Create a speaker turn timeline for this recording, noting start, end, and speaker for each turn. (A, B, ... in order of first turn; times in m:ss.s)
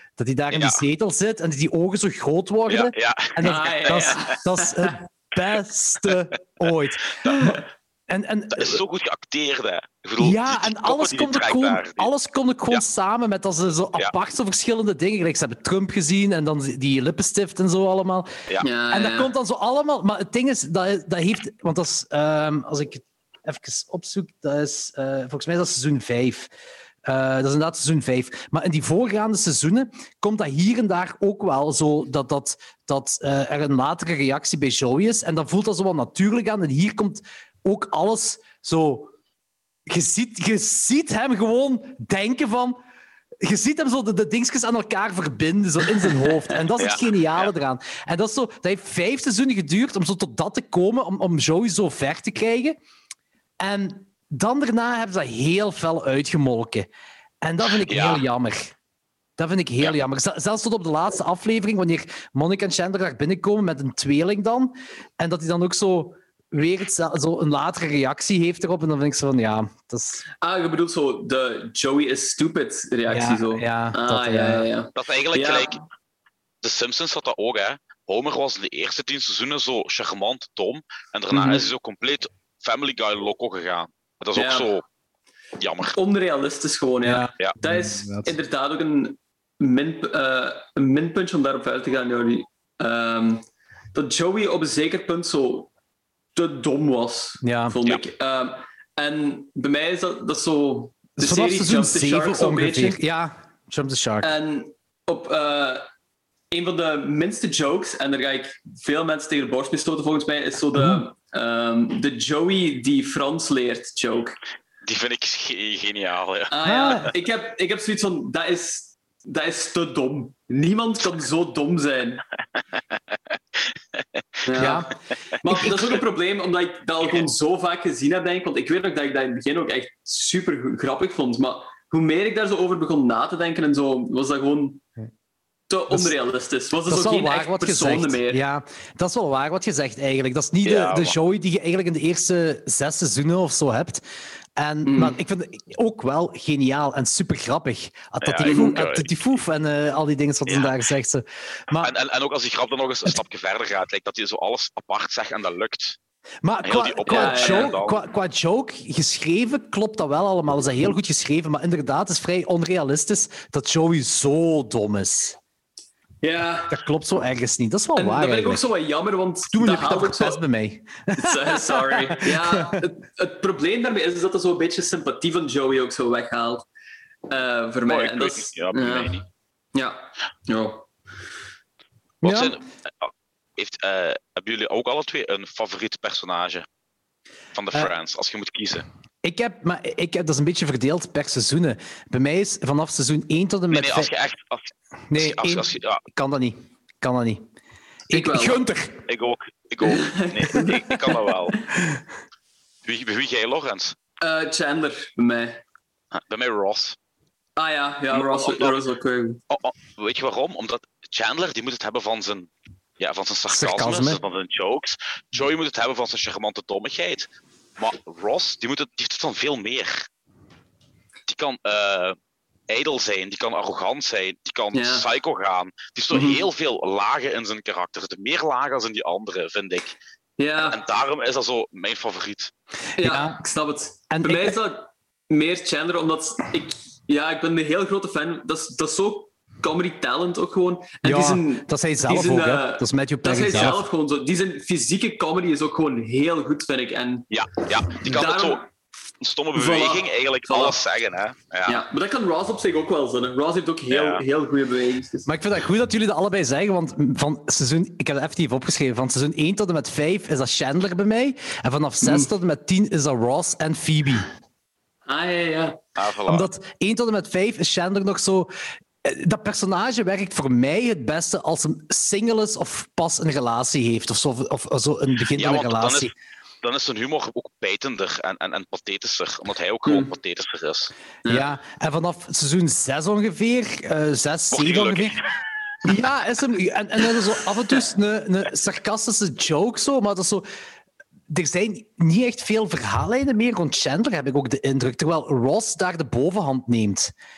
0:00.2-0:08.8 A
0:00.5-0:00.8 B
0:02.7-0:04.4 B
0:03.4-0:05.0 C
0:07.2-0:07.6 B
0:08.5-0:12.1 B
0:10.2-0:18.3 A
0:18.6-0:19.3 C
0:18.9-0:26.5 A
0:27.0-0:39.1 A
0:39.9-0:42.8 A
0:43.4-0:52.8 A
0:46.8-0:47.5 B
0:53.6-0:56.9 A
0:57.4-0:58.7 A
0:57.8-0:58.2 B
0:59.4-1:10.2 A
1:10.4-1:15.8 C
1:13.1-1:14.6 A
1:15.0-1:15.8 B
1:16.6-1:24.8 B
1:21.3-1:21.6 A
1:24.4-1:24.8 C
1:25.6-1:26.0 B
1:25.9-1:35.7 C
1:27.0-1:28.3 A
1:36.4-1:43.0 C
1:37.4-1:37.8 A
1:41.2-1:44.3 A
1:44.2-1:45.9 C
1:46.5-1:54.4 C
1:50.8-1:51.0 A
1:54.8-1:56.5 B
1:56.5-2:02.2 C
1:56.7-1:57.1 A
2:04.4-2:04.9 C
2:04.6-2:04.9 A
2:05.4-2:14.8 C
2:05.5-2:05.9 B
2:15.7-2:18.4 C
2:16.9-2:24.0 A
2:20.6-2:21.1 B
2:24.6-2:31.9 A
2:24.8-2:25.2 C
2:28.2-2:29.2 B
2:28.5-2:28.8 C
2:30.5-2:30.8 B
2:31.7-2:36.0 B
2:36.4-2:45.4 A
2:36.6-2:38.0 B
2:37.1-2:37.8 C
2:46.2-2:46.8 C
2:46.7-2:48.6 A
2:48.0-2:50.4 C
2:49.5-2:52.8 A
2:51.2-2:56.7 C
2:57.3-2:59.2 C
2:57.9-2:59.2 B
2:59.7-3:00.9 C
3:02.2-3:02.6 A
3:02.2-3:06.7 B
3:07.5-3:08.8 B
3:09.2-3:14.1 A
3:13.7-3:16.0 B
3:15.1-3:17.5 A
3:18.1-3:18.6 C
3:18.1-3:19.1 A
3:19.1-3:21.6 B
3:19.8-3:21.6 C
3:22.8-3:24.0 B
3:24.2-3:25.6 C
3:26.1-3:27.0 B
3:27.6-3:29.4 C
3:28.1-3:28.8 B
3:29.5-3:40.1 B
3:33.5-3:34.2 A
3:41.3-3:42.2 B
3:42.7-3:50.0 B
3:44.7-3:45.1 C
3:46.1-3:46.4 C
3:50.4-3:50.8 C
3:50.6-3:52.5 B
3:53.0-3:53.4 A
3:53.0-4:07.3 C
3:54.1-3:54.6 A
4:01.0-4:03.8 A
4:07.3-4:08.6 B
4:07.9-4:08.7 C
4:09.2-4:11.8 B
4:09.5-4:10.8 C
4:11.7-4:15.3 C
4:13.9-4:14.2 B
4:15.3-4:24.3 A
4:25.1-4:25.8 C
4:26.0-4:26.5 B
4:26.3-4:28.5 A
4:29.0-4:36.1 A
4:35.4-4:36.1 B
4:36.6-4:40.9 B
4:39.9-4:40.1 C
4:41.3-4:45.2 A
4:44.5-4:45.3 B
4:45.8-4:50.4 A
4:51.3-4:57.1 A